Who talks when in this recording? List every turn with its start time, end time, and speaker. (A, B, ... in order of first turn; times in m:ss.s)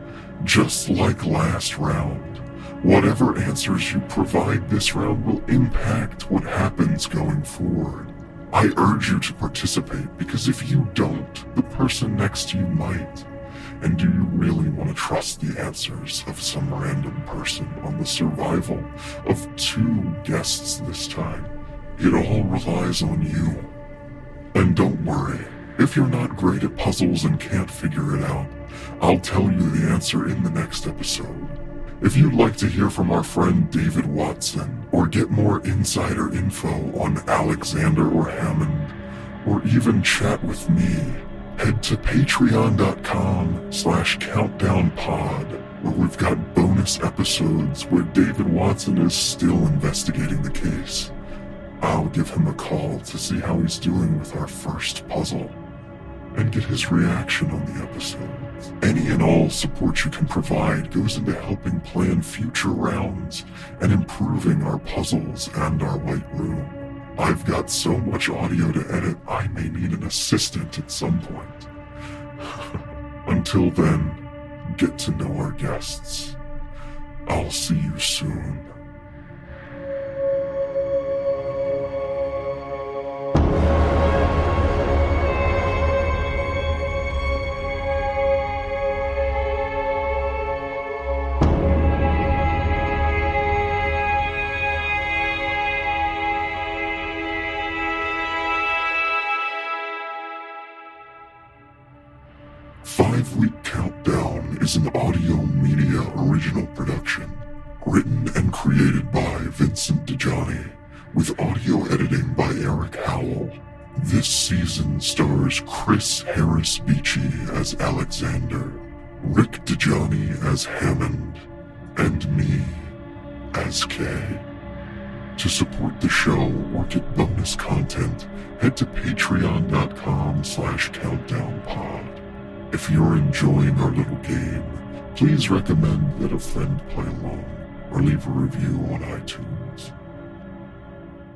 0:00.4-0:13.3 A
0:13.8-0:23.7 A
0:24.5-0:51.1 A
0:51.8-0:55.6 A
0:56.3-1:11.7 A
1:13.2-1:16.4 A
1:17.2-1:18.7 A
1:42.8-2:01.4 A
2:02.0-2:03.0 A
2:03.5-2:04.4 A
2:05.4-2:19.9 A